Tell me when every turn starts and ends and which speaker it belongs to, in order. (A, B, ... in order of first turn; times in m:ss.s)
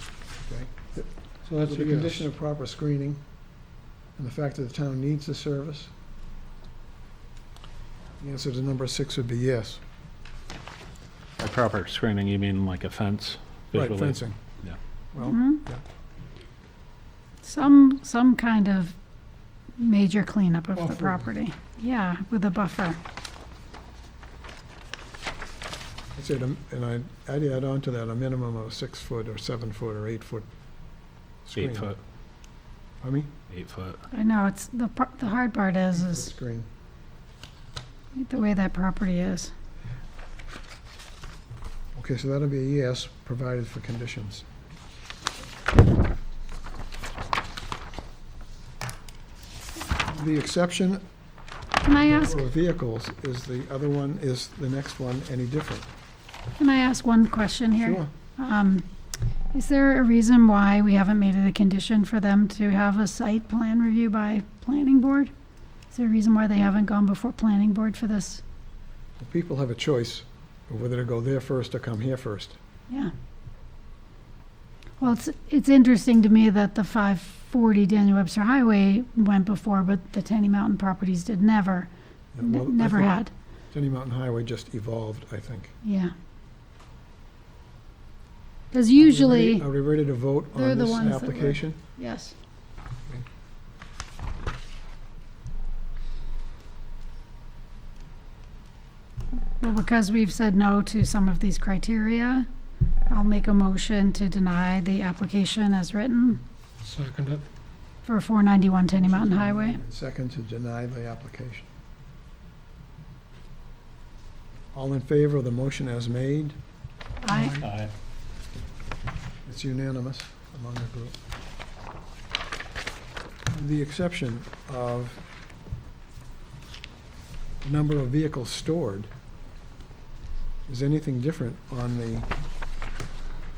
0:00.4-0:03.2 A
0:01.4-0:02.3 B
0:04.2-0:05.9 A
0:08.2-0:09.8 A
0:11.4-0:14.8 C
0:13.7-0:14.4 A
0:15.1-0:15.8 A
0:15.2-0:15.6 D
0:17.4-0:19.0 D
0:19.8-0:23.0 D
0:20.8-0:21.2 B
0:26.1-0:30.4 A
0:31.4-0:31.9 A
0:31.5-0:32.0 C
0:33.0-0:33.3 A
0:33.5-0:34.0 C
0:34.1-0:36.3 D
0:35.9-0:36.6 A
0:38.1-0:39.5 D
0:41.9-0:44.4 A
0:50.1-0:51.0 A
0:51.8-0:52.4 D
0:52.0-0:55.9 A
0:56.6-0:58.9 D
0:57.8-0:58.1 A
0:59.5-1:05.3 D
1:05.9-1:08.4 D
1:09.2-1:12.6 A
1:15.0-1:21.9 D
1:22.3-1:23.2 A
1:22.4-1:23.3 D
1:23.7-1:25.7 A
1:25.8-1:26.1 D
1:28.7-1:29.7 D
1:29.0-1:31.8 A
1:30.5-1:32.3 D
1:39.6-1:42.5 D
1:43.1-1:46.4 D
1:46.8-1:47.4 B
1:48.0-1:49.8 D
1:49.0-1:51.7 A
1:54.7-1:56.6 A
1:57.2-1:57.6 D
1:57.3-1:57.7 A
1:57.6-1:57.9 C
1:59.4-2:01.1 A
2:03.5-2:05.2 A
2:07.6-2:09.1 A
2:10.7-2:12.3 A